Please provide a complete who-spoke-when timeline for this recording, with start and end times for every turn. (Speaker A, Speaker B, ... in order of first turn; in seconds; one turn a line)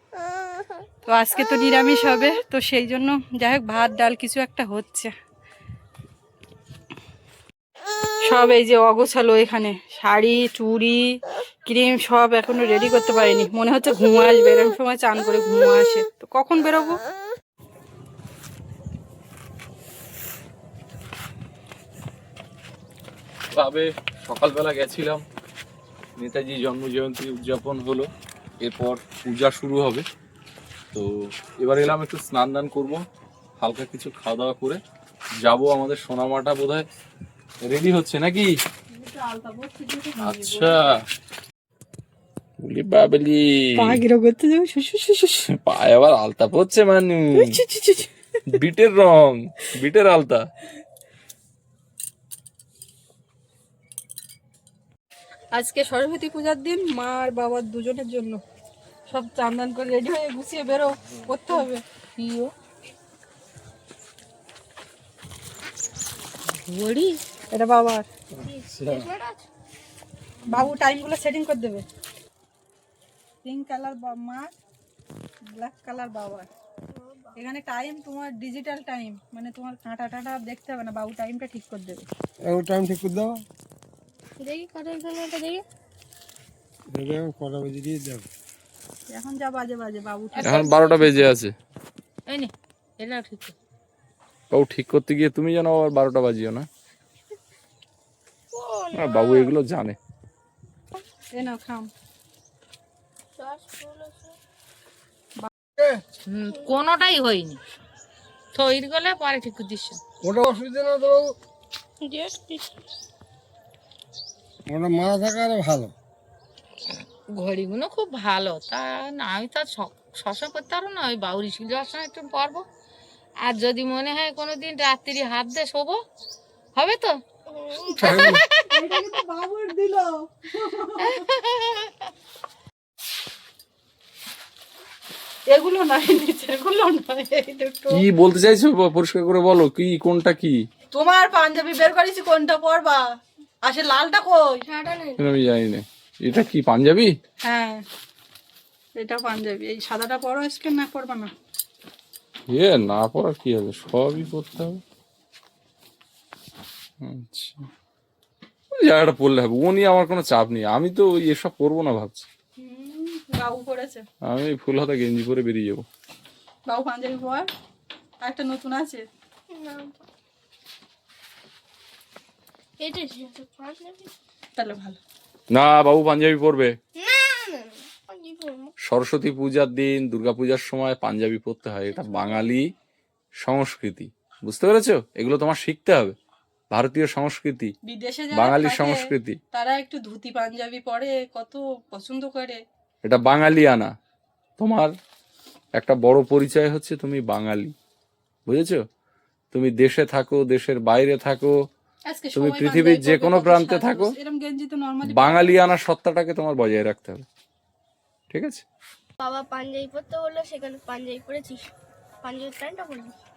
Speaker A: 1.1-5.1
Speaker A: 8.3-17.0
Speaker B: 23.5-25.2
Speaker B: 26.2-28.1
Speaker B: 28.6-30.0
Speaker B: 30.9-33.0
Speaker B: 33.6-34.8
Speaker B: 35.4-36.9
Speaker B: 37.6-38.5
Speaker A: 38.9-40.8
Speaker B: 40.2-40.9
Speaker B: 42.6-44.0
Speaker A: 43.8-45.5
Speaker B: 45.5-47.6
Speaker A: 47.3-48.6
Speaker B: 48.5-50.5
Speaker A: 55.5-58.4
Speaker A: 59.1-61.8
Speaker C: 62.1-62.5
Speaker C: 66.6-67.2
Speaker A: 67.5-68.0
Speaker B: 68.3-69.1
Speaker D: 68.4-69.5
Speaker A: 70.5-71.8
Speaker A: 73.4-74.5
Speaker A: 75.5-76.5
Speaker D: 76.9-77.3
Speaker A: 77.3-82.1
Speaker E: 82.4-83.4
Speaker D: 84.4-85.6
Speaker E: 86.9-88.3
Speaker A: 89.1-91.3
Speaker B: 90.4-91.5
Speaker C: 92.3-93.5
Speaker B: 94.5-96.7
Speaker D: 98.5-99.5
Speaker B: 98.9-100.0
Speaker A: 101.3-101.9
Speaker D: 103.3-104.3
Speaker C: 106.3-107.6
Speaker C: 108.5-110.0
Speaker E: 110.2-111.3
Speaker D: 112.0-112.8
Speaker E: 114.7-115.9
Speaker C: 117.3-122.6
Speaker C: 123.4-126.0
Speaker C: 126.8-127.2
Speaker D: 127.5-128.3
Speaker C: 128.0-128.8
Speaker B: 128.0-128.4
Speaker A: 128.6-131.2
Speaker C: 131.1-131.9
Speaker A: 135.5-138.0
Speaker B: 137.9-140.6
Speaker A: 140.9-143.0
Speaker A: 143.6-144.4
Speaker D: 144.7-145.2
Speaker B: 145.2-147.1
Speaker A: 147.4-147.8
Speaker A: 149.0-151.3
Speaker B: 152.5-154.8
Speaker B: 157.0-157.7
Speaker B: 158.8-162.3
Speaker A: 162.6-164.0
Speaker B: 164.2-165.8
Speaker A: 166.7-167.5
Speaker A: 168.2-169.0
Speaker D: 169.5-170.0
Speaker D: 172.8-174.1
Speaker A: 174.6-175.0
Speaker B: 175.5-176.7
Speaker D: 176.9-178.7
Speaker B: 178.9-182.7
Speaker D: 181.9-182.4
Speaker B: 183.4-186.2
Speaker B: 186.7-187.7
Speaker A: 187.8-192.6
Speaker B: 188.3-189.4
Speaker B: 193.0-193.9
Speaker B: 194.6-194.9
Speaker B: 195.8-197.7
Speaker B: 198.5-198.8
Speaker B: 199.5-201.5
Speaker A: 202.1-205.7
Speaker B: 202.3-204.1
Speaker B: 205.0-207.2
Speaker B: 208.3-208.6
Speaker D: 209.2-211.7
Speaker D: 212.2-213.2